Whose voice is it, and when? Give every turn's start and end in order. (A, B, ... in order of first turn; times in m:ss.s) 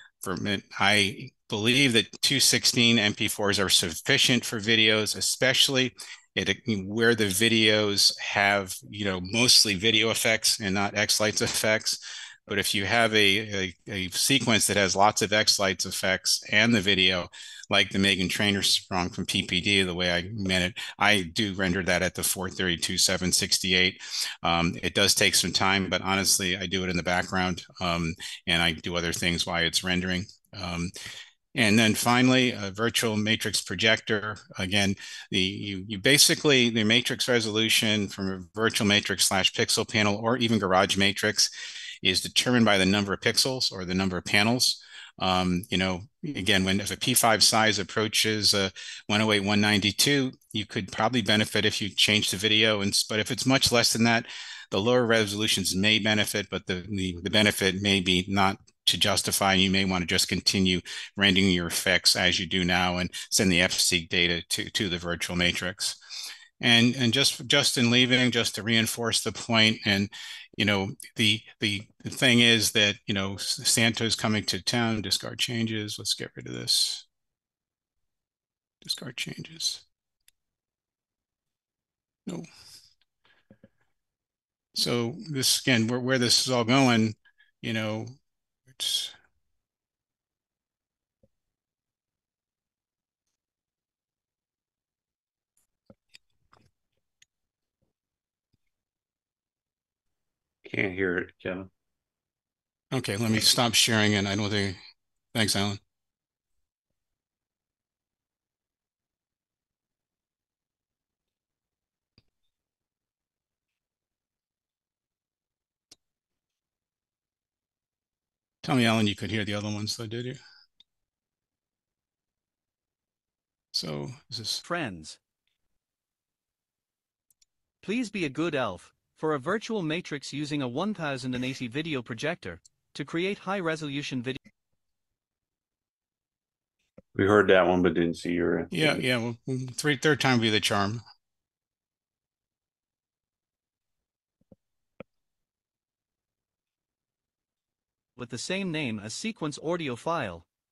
0:00.2-0:30.9 A
0:31.5-0:41.5 A
0:42.0-1:06.0 A
1:06.6-1:17.0 A
1:18.8-1:19.8 A
1:24.7-1:28.1 A
1:28.7-1:29.1 A
1:40.6-1:41.7 B
1:42.9-1:44.8 A
1:45.3-1:45.8 A
1:58.6-2:00.4 A
2:03.7-2:04.6 A
2:04.6-2:05.2 C
2:07.8-2:14.4 C
2:17.1-2:19.0 B
2:18.7-2:21.0 A
2:28.2-2:30.4 C